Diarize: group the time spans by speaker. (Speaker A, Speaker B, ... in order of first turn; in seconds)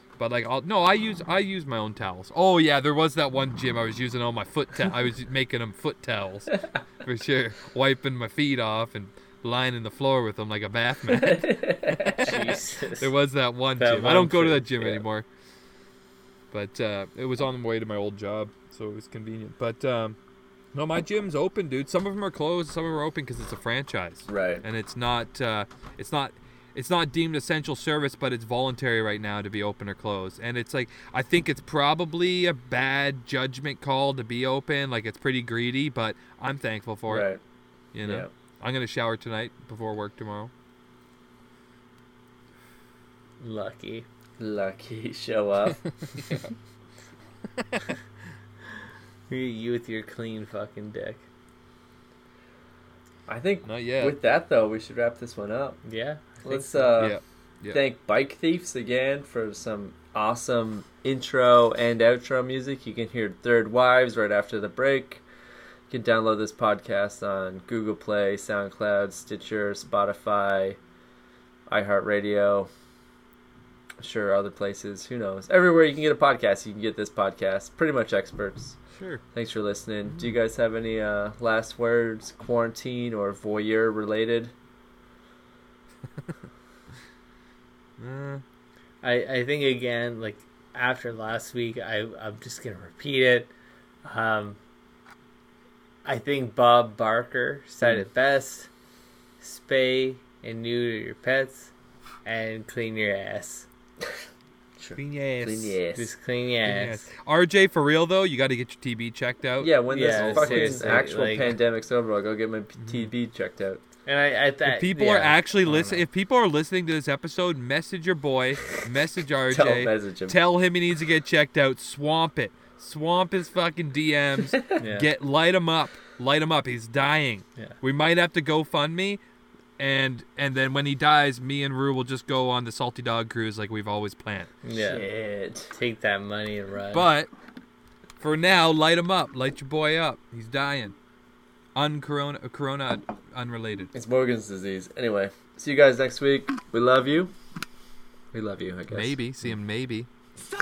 Speaker A: 0.2-15.2, 16.5-20.1, 20.7-37.3, 37.9-40.5, 45.7-46.5, 47.6-47.9, 53.6-54.1, 57.0-57.8, 78.9-79.2, 80.0-80.4, 88.0-88.4, 105.0-105.8, 106.6-110.9, 112.8-113.1, 114.7-129.2, 129.8-134.5, 136.9-137.3, 138.2-140.9, 141.7-143.9, 148.9-150.1
Speaker B: 11.1-12.5, 14.6-15.0, 24.3-24.6, 37.1-37.4, 38.0-38.3, 44.4-45.8, 53.3-55.8, 56.4-57.1, 57.7-65.2, 65.9-70.8, 71.7-72.7, 74.0-78.8, 79.3-84.5, 104.8-106.1, 109.6-113.8, 119.5-120.4, 134.7-135.7, 143.9-147.3, 148.3-149.2
Speaker C: 12.2-13.1, 13.8-14.6, 43.4-44.0, 49.3-51.2, 55.8-57.1, 89.0-93.5, 94.0-94.6, 96.0-98.7, 99.4-101.7, 102.2-103.7, 105.9-107.1, 109.9-111.6, 114.0-116.0, 124.8-125.1, 134.6-135.1, 135.7-137.1